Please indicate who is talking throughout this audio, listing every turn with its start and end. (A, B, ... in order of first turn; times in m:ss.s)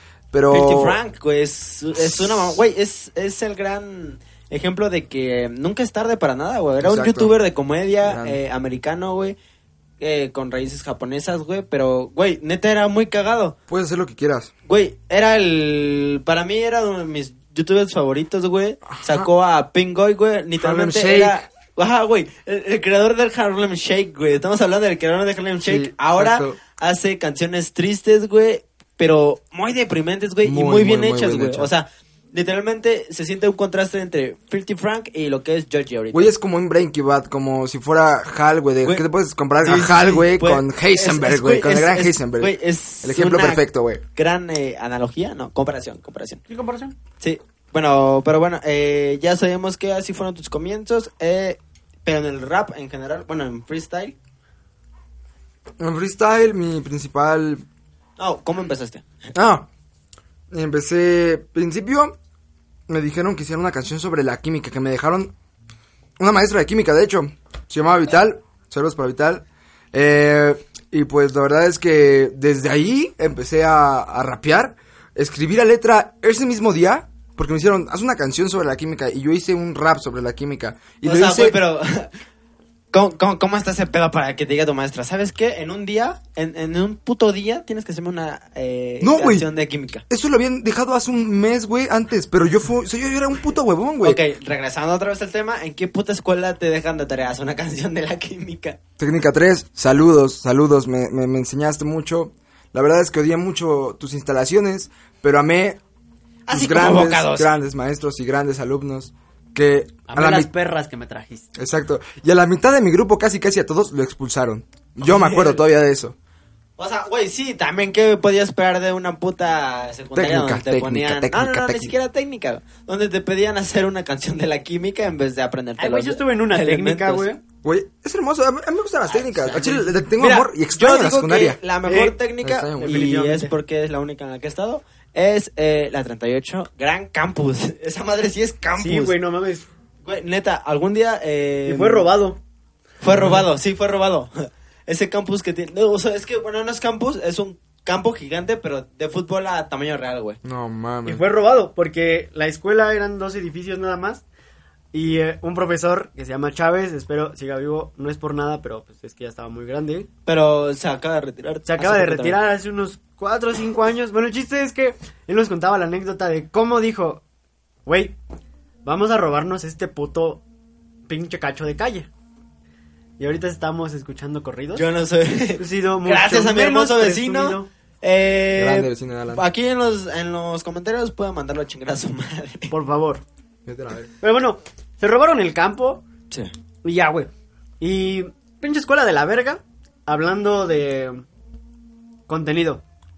0:00.3-0:01.0 A
0:00.5-0:09.4 B
0:06.8-0:07.3 A
0:08.0-0:08.4 A
0:10.0-0:13.6 B
0:13.7-0:14.5 A
0:14.7-0:36.3 B
0:18.9-0:19.3 A
0:20.6-0:21.4 A
0:25.6-0:26.6 A
0:30.4-0:31.7 A
0:36.1-0:44.0 A
0:39.6-0:46.4 B
0:46.5-0:46.9 C
0:47.2-0:54.1 B
0:55.8-0:57.6 A
0:58.2-0:59.0 B
0:59.3-0:59.7 A
1:00.5-1:02.2 A
1:02.9-1:05.3 A
1:06.2-1:21.6 A
1:21.0-1:22.1 B
1:22.9-1:30.0 B
1:29.0-1:29.5 A
1:30.1-1:34.2 A
1:34.0-1:38.8 B
1:39.0-1:45.8 A
1:46.5-1:47.5 B
1:46.5-1:50.5 A
1:50.1-1:51.5 C
1:51.5-1:56.1 A
1:55.0-1:55.6 B
1:56.8-2:07.3 B
2:00.1-2:01.9 A
2:05.8-2:07.4 C
2:07.6-2:11.6 A
2:09.1-2:19.2 B
2:11.8-2:12.2 C
2:12.4-2:13.0 A
2:12.8-2:13.5 C
2:18.8-2:19.7 C
2:20.0-2:22.1 B
2:21.6-2:22.4 C
2:23.0-2:30.4 B
2:23.1-2:23.4 A
2:30.4-2:31.2 A
2:31.0-2:34.2 C
2:34.9-2:40.1 C
2:40.2-2:42.4 B
2:41.6-2:47.2 C
2:47.8-2:48.2 C
2:48.8-2:50.4 C
2:51.1-2:52.1 C
2:53.2-2:54.8 C
2:54.7-3:02.7 B
2:55.6-2:57.7 C
2:58.5-2:59.4 A
3:02.7-3:03.2 C
3:03.6-3:04.1 A
3:04.2-3:06.0 C
3:06.8-3:11.2 C
3:12.3-3:12.8 C